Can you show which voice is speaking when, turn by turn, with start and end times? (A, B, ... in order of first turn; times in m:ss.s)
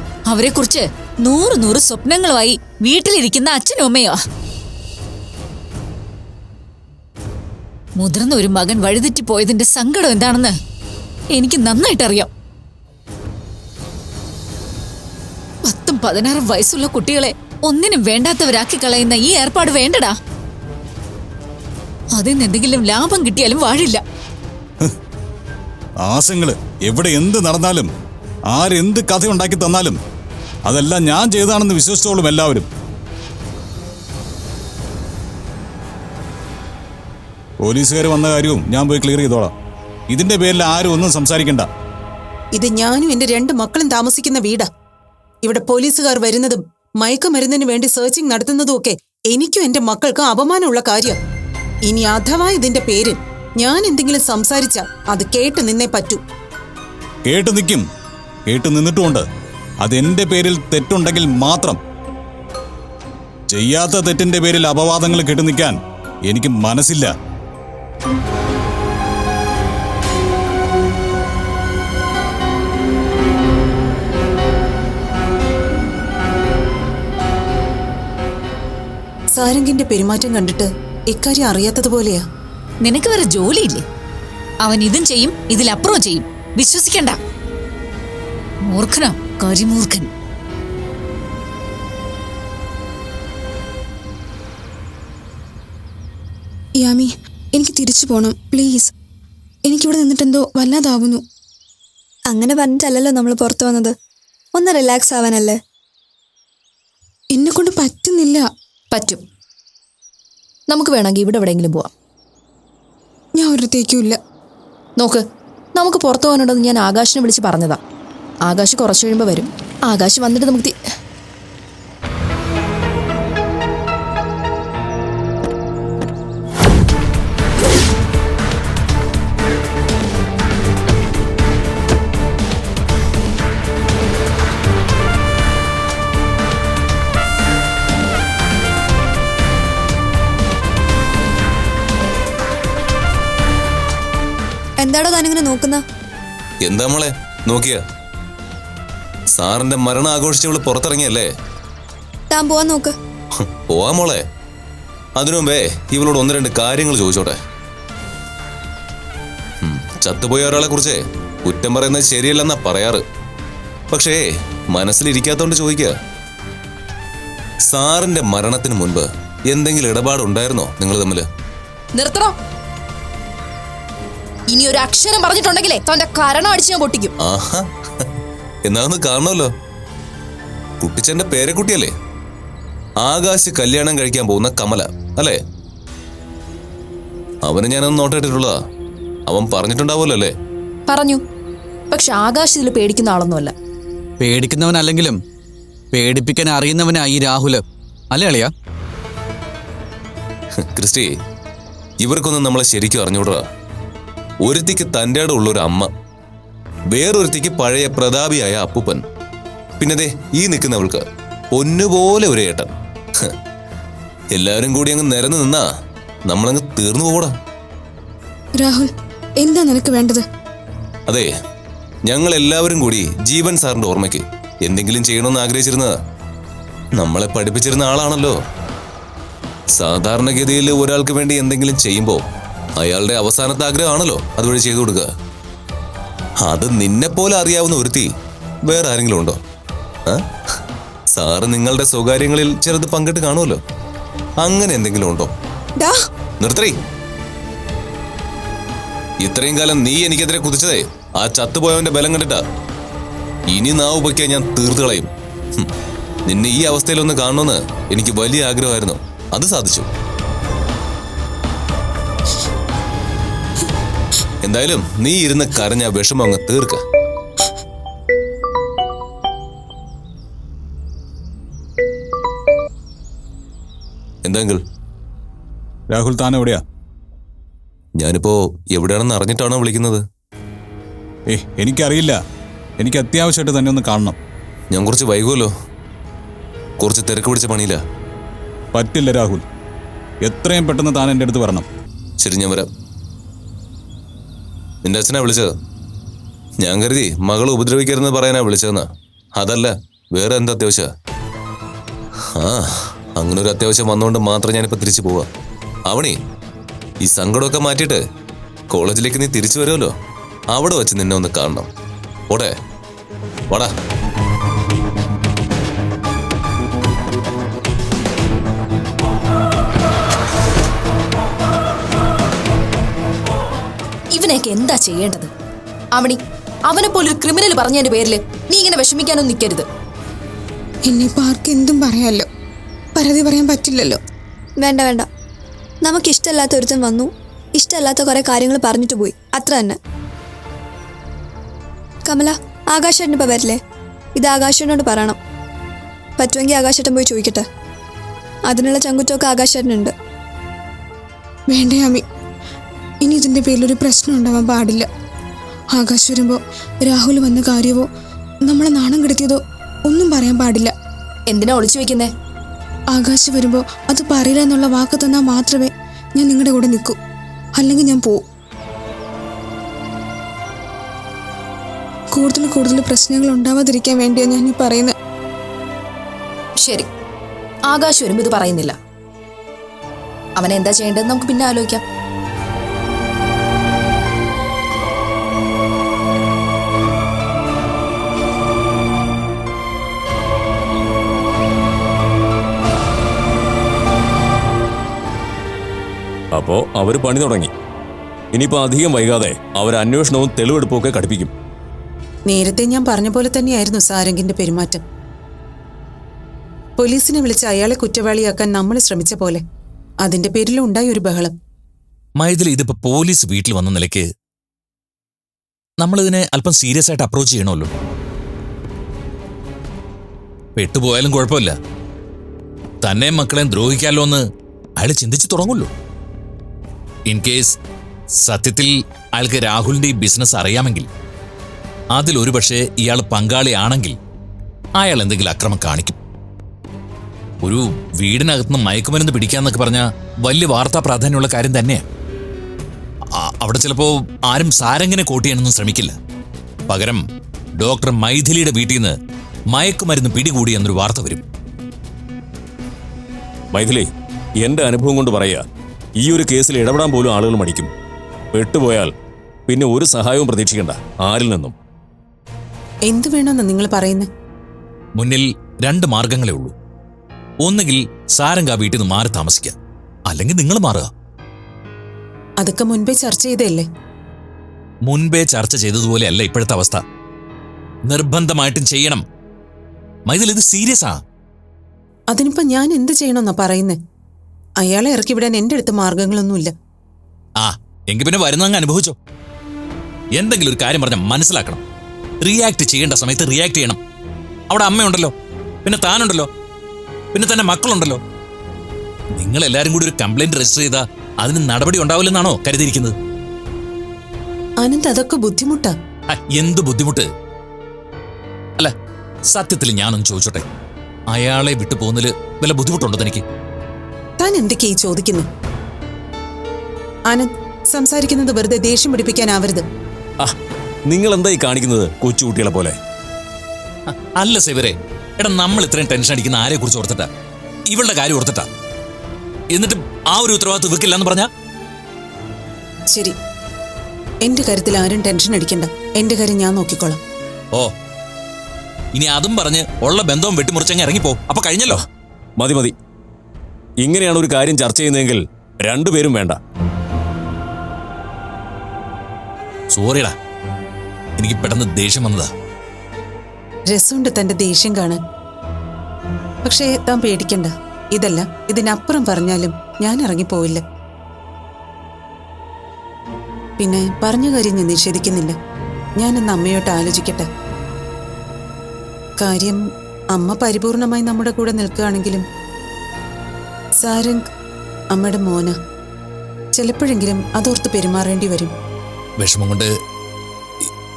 0:00.3-0:04.2 A
0:08.0-0:10.5 A
0:11.3-0:12.3 A
0:15.6-0:20.2 A
0:22.1-0:24.0 A
0:26.0-0:27.9 B
0:28.5-0:30.0 B
0:30.6-0:32.6 B
0:37.6-0:39.5 B
0:40.1-0:41.7 B
0:42.5-0:44.7 C
0:45.4-0:51.2 C
0:51.9-0:56.2 C
0:57.3-0:57.8 B
0:58.5-0:59.2 B
0:59.8-1:01.8 B
1:03.5-1:05.8 B
1:06.3-1:07.1 B
1:19.3-1:22.2 C
1:22.8-1:23.8 A
1:24.6-1:27.2 A
1:28.7-1:30.1 A
1:36.8-1:38.9 D
1:39.6-1:41.2 D
1:42.3-1:43.9 E
1:44.5-1:45.6 E
1:47.3-1:48.4 D
1:48.9-1:49.2 F
1:50.7-1:51.9 F
1:53.4-1:54.2 D
1:55.8-1:57.8 F
1:58.4-2:00.7 F
2:24.8-2:25.8 E
2:26.7-2:27.8 G
2:29.3-2:31.3 G
2:32.3-2:32.9 E
2:33.7-2:34.2 G
2:35.2-2:37.4 G
2:39.6-2:43.0 G
2:43.9-2:44.2 G
2:44.7-2:45.9 G
2:47.7-2:51.2 G
2:51.9-2:52.3 F
2:54.5-2:57.1 F
2:57.2-2:58.1 G
2:58.7-2:59.5 G
3:00.8-3:01.9 G
3:03.0-3:05.4 G
3:07.5-3:08.5 G
3:09.3-3:10.3 G
3:10.9-3:11.2 F
3:11.9-3:13.5 F
3:14.2-3:15.2 H
3:15.9-3:17.6 H
3:18.1-3:18.5 H
3:20.7-3:21.1 G
3:22.0-3:23.4 G
3:24.4-3:25.9 G
3:26.9-3:29.0 G
3:29.8-3:31.0 G
3:31.5-3:32.7 G
3:34.4-3:35.6 G
3:36.3-3:37.3 G
3:38.5-3:40.2 D
3:42.0-3:45.9 G
3:47.0-3:48.4 G
3:49.8-3:52.2 G
3:52.8-3:55.0 G
3:56.4-3:58.1 G
3:58.7-3:59.4 G
4:01.1-4:03.6 G
4:04.4-4:05.3 G
4:06.4-4:06.8 G
4:09.2-4:12.4 G
4:13.5-4:15.7 G
4:16.3-4:19.9 G
4:24.4-4:26.8 G
4:34.3-4:34.6 G
4:35.9-4:36.6 B
4:38.0-4:40.0 G
4:41.3-4:42.2 B
4:42.8-4:44.2 B
4:44.7-4:45.5 G
4:46.8-4:47.8 G
4:48.7-4:49.4 B
4:50.2-4:51.6 B
4:52.2-4:52.7 G
4:54.8-4:55.5 G
4:56.6-4:58.9 G
4:59.4-5:00.9 G
5:02.4-5:02.7 G
5:03.2-5:05.3 G
5:05.9-5:06.2 G
5:07.0-5:08.0 G
5:08.7-5:09.9 G
5:10.5-5:11.7 G
5:24.1-5:25.3 F
5:26.0-5:29.6 F
5:30.8-5:32.2 D
5:32.9-5:34.0 D
5:34.6-5:35.0 E
5:35.8-5:39.8 E
5:42.1-5:43.6 E
5:44.2-5:45.2 E
5:46.2-5:47.4 E
5:48.5-5:49.9 E
5:51.5-5:52.0 D
5:53.0-5:54.9 D
5:55.7-5:57.9 D
5:58.4-6:00.7 D
6:01.3-6:02.1 F
6:02.9-6:07.0 D
6:07.6-6:08.2 D
6:12.1-6:14.9 D
6:16.6-6:16.9 F
6:17.7-6:18.7 F
6:20.4-6:21.8 F
6:36.3-6:37.5 I
6:38.3-6:41.3 I
6:42.3-6:44.8 C
6:46.8-6:49.4 C
6:50.0-6:51.3 C
6:52.2-6:54.1 J
6:55.8-6:57.7 J
7:00.6-7:01.6 J
7:02.8-7:04.2 J
7:04.8-7:05.7 J
7:07.1-7:07.6 J
7:08.2-7:10.9 J
7:11.9-7:14.0 J
7:14.8-7:16.0 J
7:17.4-7:21.8 J
7:23.2-7:26.0 J
7:26.7-7:27.0 J
7:27.6-7:29.0 J
7:29.5-7:31.2 J
7:33.5-7:33.9 I
7:34.4-7:35.4 I
7:36.0-7:37.7 I
7:38.3-7:38.9 I
7:39.5-7:41.5 I
7:42.9-7:44.1 C
7:45.0-7:46.5 J
7:47.4-7:49.6 J
7:50.1-7:50.9 J
7:52.4-7:53.6 C
7:54.8-7:56.8 J
7:57.9-7:59.0 J
8:00.1-8:01.0 J
8:02.1-8:03.8 C
8:04.6-8:06.5 C
8:07.4-8:09.0 J
8:10.2-8:11.6 J
8:12.2-8:13.8 J
8:14.5-8:15.1 J
8:15.6-8:16.3 J
8:17.1-8:18.0 J
8:19.2-8:23.0 J
8:24.6-8:25.7 C
8:26.1-8:27.1 J
8:29.3-8:30.4 J
8:31.1-8:33.2 J
8:34.2-8:35.3 C
8:37.1-8:39.6 C
8:40.8-8:42.8 I
8:43.9-8:47.1 J
8:47.7-8:48.5 J
8:49.5-8:51.3 J
8:54.2-8:57.0 C
8:58.9-9:01.8 J
9:02.4-9:02.7 I
9:03.8-9:06.4 I
9:09.7-9:10.2 J
9:11.2-9:12.3 J
9:13.7-9:15.0 C
9:16.4-9:20.6 C
9:23.6-9:25.4 C
9:26.0-9:27.2 C
9:29.2-9:29.6 C
9:30.1-9:32.2 C
9:33.8-9:34.2 C
9:34.9-9:35.6 C
9:36.5-9:38.5 C
9:39.2-9:39.7 J